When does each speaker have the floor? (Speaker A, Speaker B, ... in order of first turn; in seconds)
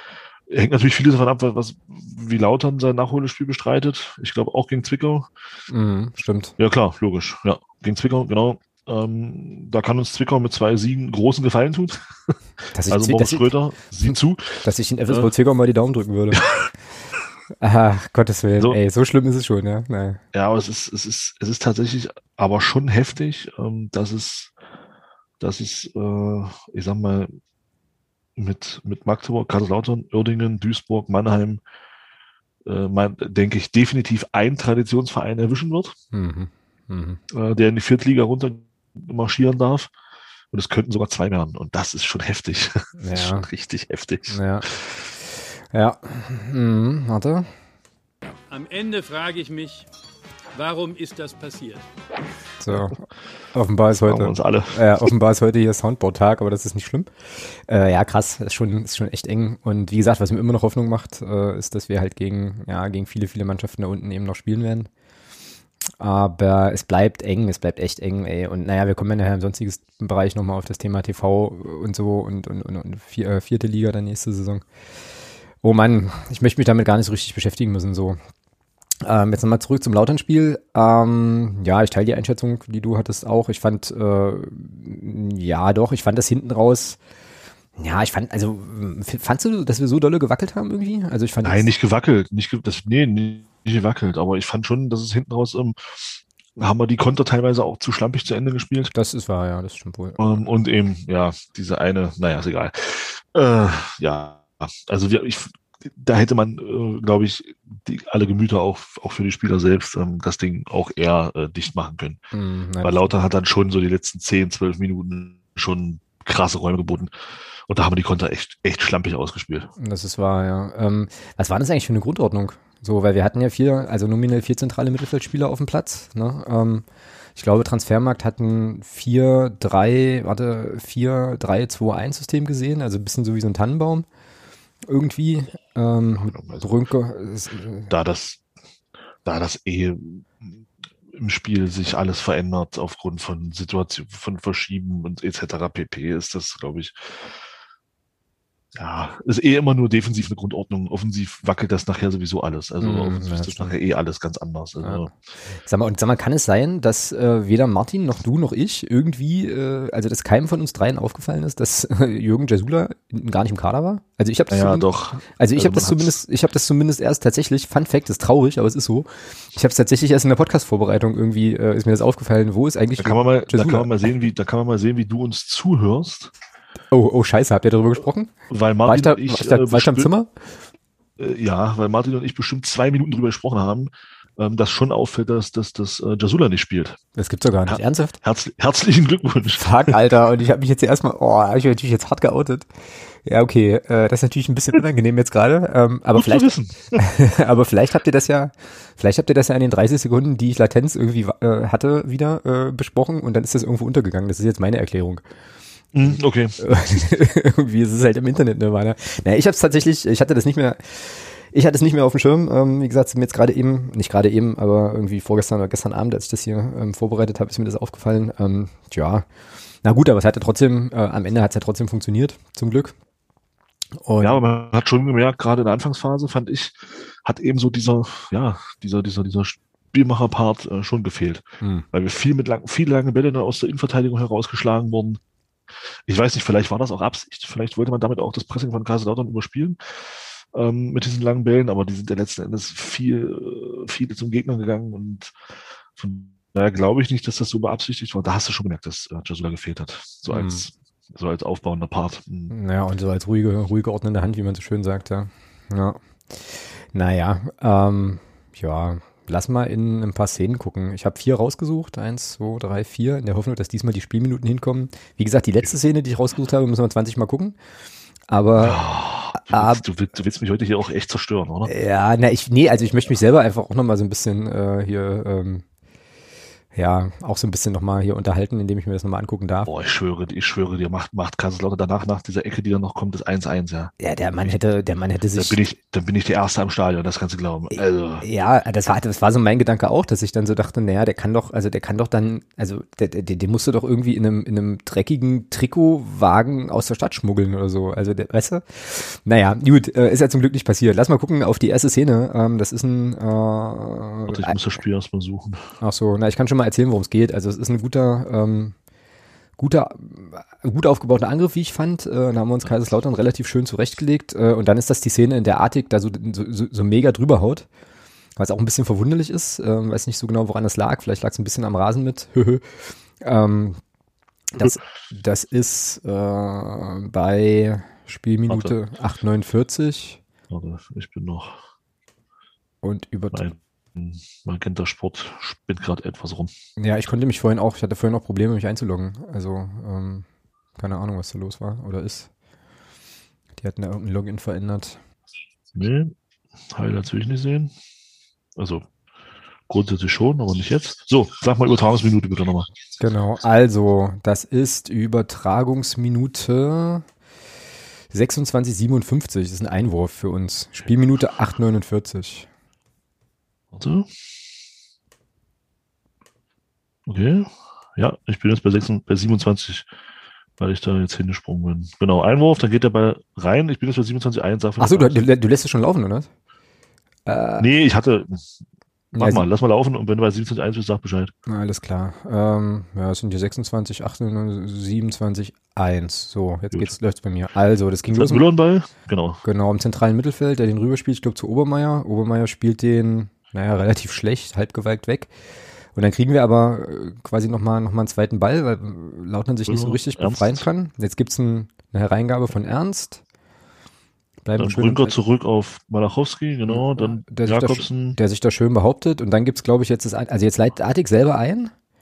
Speaker A: 0.5-5.3, 6.6-12.3, 12.9-15.3, 16.4-16.7, 20.3-24.5, 25.4-27.3, 28.4-31.6, 32.6-36.0, 37.3-39.9, 40.5-45.1, 53.9-54.9, 91.5-98.9, 100.2-112.2, 112.8-119.7, 136.2-136.7, 137.9-138.4, 139.2-147.4, 148.8-155.1, 164.5-166.2, 173.0-176.3, 178.5-180.1, 181.2-187.0, 187.7-190.0, 196.2-197.0, 205.9-206.6, 224.2-235.2, 236.1-245.4, 246.0-252.5, 268.6-271.7, 279.7-283.9, 285.4-288.2, 304.3-305.6, 328.5-328.7, 330.5-331.6, 333.3-336.5, 345.8-346.1, 346.7-347.7, 348.6-348.9, 349.7-352.7, 363.7-364.1, 367.1-369.9, 370.6-375.2, 377.6-378.5, 379.1-381.3, 388.1-389.4, 399.7-400.7, 404.6-408.2
Speaker B: 5.7-6.6, 12.7-13.5, 14.1-16.5, 17.6-20.2, 36.1-37.2, 43.0-43.5, 44.3-44.7, 45.7-47.5, 52.6-64.9, 66.0-74.6, 75.6-78.2, 79.0-87.0, 87.8-91.7, 98.9-100.4, 112.3-113.1, 119.8-126.8, 127.4-134.1, 134.9-137.9, 152.8-153.8, 155.7-174.1, 176.9-178.3, 178.9-180.3, 187.2-188.2, 189.6-192.7, 193.2-205.2, 206.0-219.3, 219.8-222.9, 224.0-224.4, 231.6-231.9, 250.3-250.7, 252.5-267.6, 268.3-269.8, 271.6-275.6, 276.7-279.7, 284.0-285.6, 287.7-304.6, 305.8-308.8, 309.6-317.7, 318.4-322.7, 323.2-323.8, 324.6-330.2, 332.8-333.4, 336.8-340.3, 340.8-342.3, 343.6-345.0, 353.0-357.1, 358.1-362.5, 374.8-376.3, 377.3-377.7, 379.1-379.4, 381.5-388.4, 389.4-395.3, 395.9-403.2, 404.4-405.2, 406.7-411.7
Speaker C: 48.5-49.9, 50.5-51.9